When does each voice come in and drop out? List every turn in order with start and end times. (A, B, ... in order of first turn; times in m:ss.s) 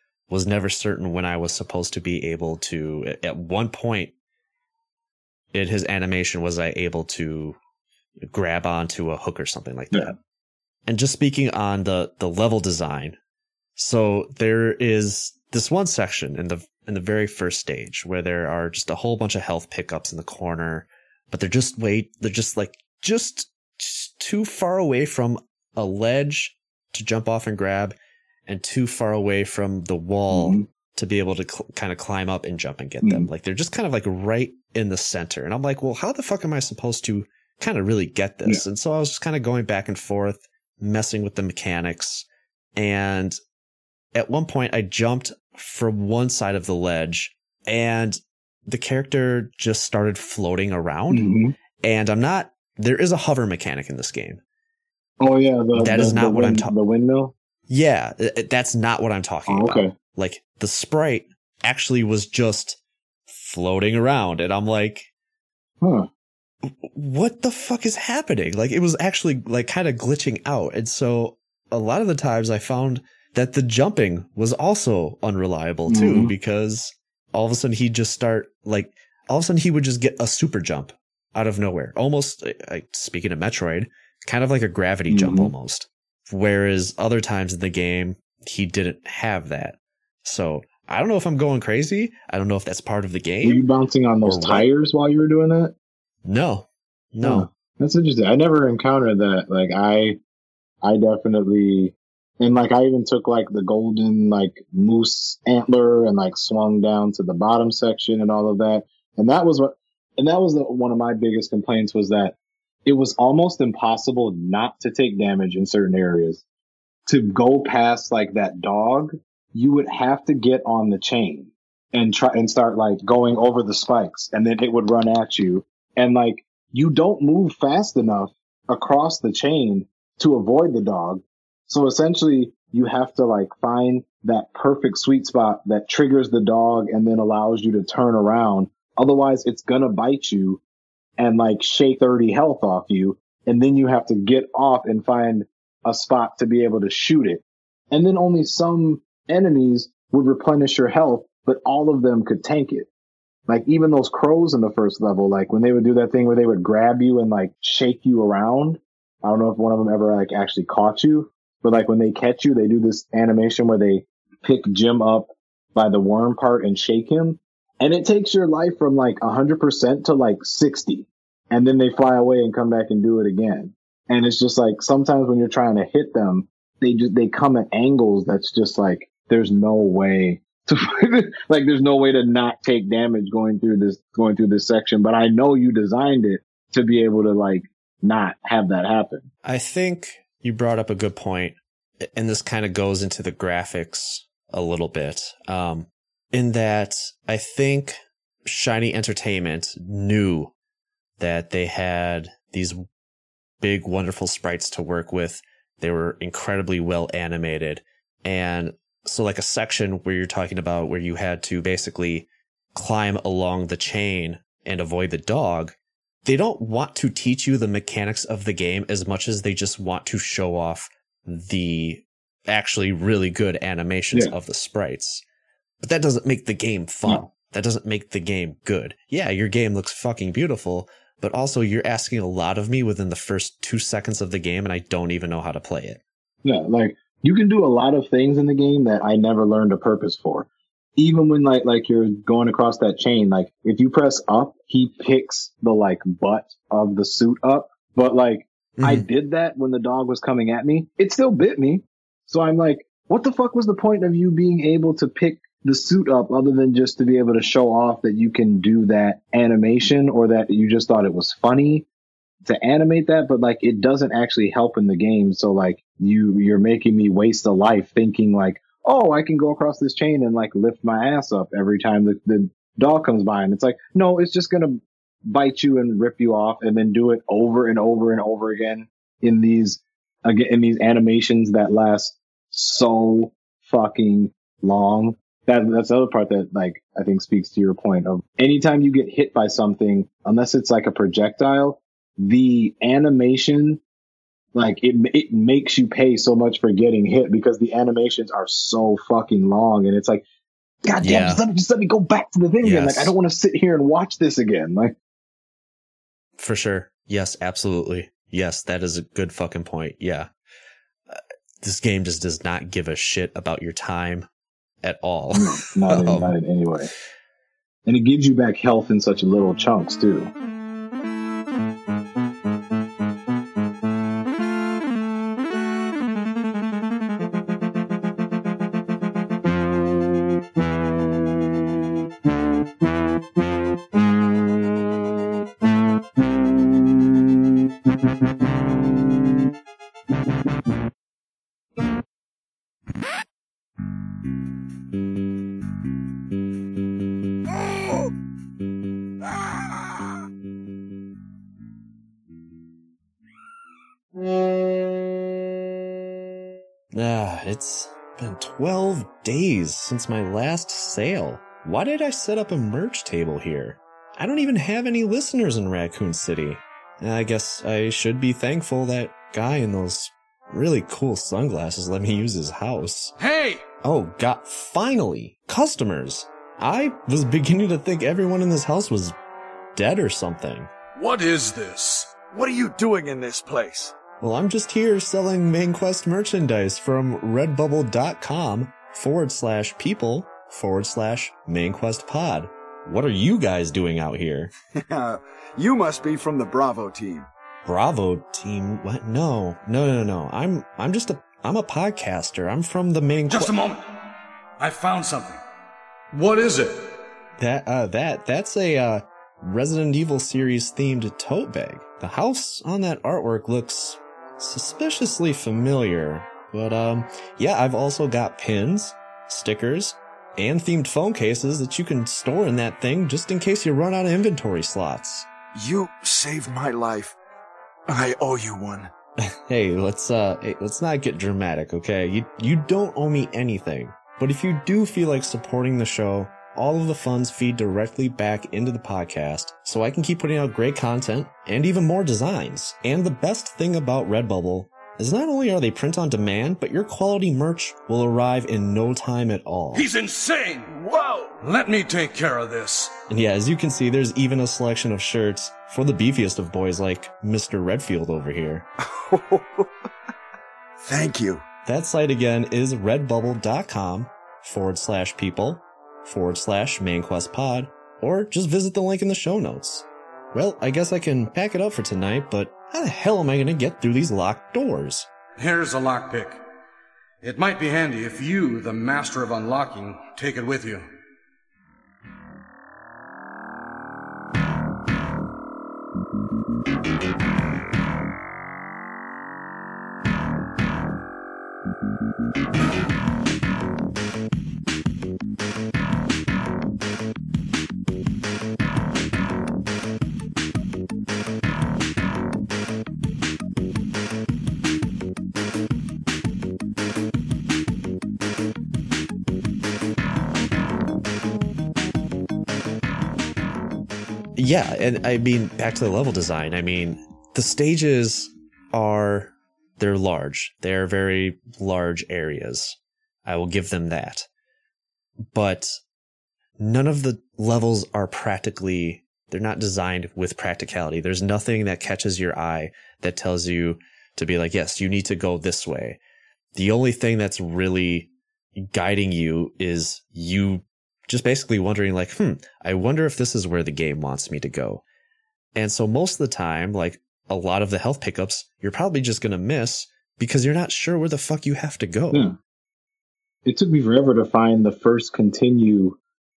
0:00.3-0:04.1 A
0:05.5-0:07.6 A
0:08.2-0:10.2 A
0:10.9-0:13.2 A
0:13.8-0:27.9 A
0:28.5-0:43.4 A
0:30.3-0:30.6 B
0:33.0-0:33.3 B
0:44.1-0:51.3 A
0:51.1-0:51.5 B
0:51.8-0:54.4 A
0:55.2-0:57.3 B
0:55.7-0:56.7 A
0:57.7-1:02.8 A
0:59.5-0:59.9 B
1:03.3-1:05.1 A
1:05.8-1:06.1 B
1:06.6-1:33.6 A
1:15.9-1:16.3 B
1:25.1-1:25.5 B
1:33.4-1:35.7 B
1:34.2-1:34.7 A
1:36.2-1:37.5 A
1:37.2-1:40.2 B
1:40.8-1:56.4 B
1:57.1-2:20.6 B
2:21.2-2:32.9 B
2:33.5-3:09.3 B
3:09.4-3:20.5 A
3:21.2-3:22.8 A
3:23.6-3:45.2 A
3:45.8-3:56.0 A
3:56.4-4:21.8 B
4:08.8-4:09.1 A
4:22.4-4:53.8 B
4:54.5-5:00.2 B
5:00.8-5:04.9 B
5:01.0-5:01.4 A
5:02.6-5:03.1 A
5:06.4-5:10.3 A
5:11.1-5:14.3 A
5:14.8-5:16.3 A
5:15.3-5:16.9 B
5:17.8-5:20.3 B
5:56.9-6:13.1 A
6:13.2-6:13.6 C
6:13.8-6:19.2 A
6:19.7-6:20.7 A
6:21.0-6:23.9 D
6:21.4-6:22.0 C
6:24.2-6:34.5 A
6:34.8-6:37.3 D
6:37.6-6:43.6 A
6:43.3-6:43.9 C
6:44.6-6:45.4 C
6:46.1-6:46.8 C
6:47.4-7:05.3 A
7:05.5-7:07.2 D
7:07.9-7:08.9 D
7:09.2-7:29.9 A
7:29.7-7:30.7 C
7:30.7-7:31.4 D
7:31.4-7:32.9 C
7:33.1-7:38.7 A
7:38.9-7:39.7 D
7:40.8-7:41.4 D
7:41.6-7:55.1 A
7:55.4-7:56.4 C
7:57.2-8:00.8 C
8:34.4-8:44.3 A
8:45.3-8:45.7 A
8:46.6-8:56.0 A
8:56.5-9:04.8 A
9:05.5-9:12.3 A
9:12.1-9:12.4 B
9:13.4-9:16.0 B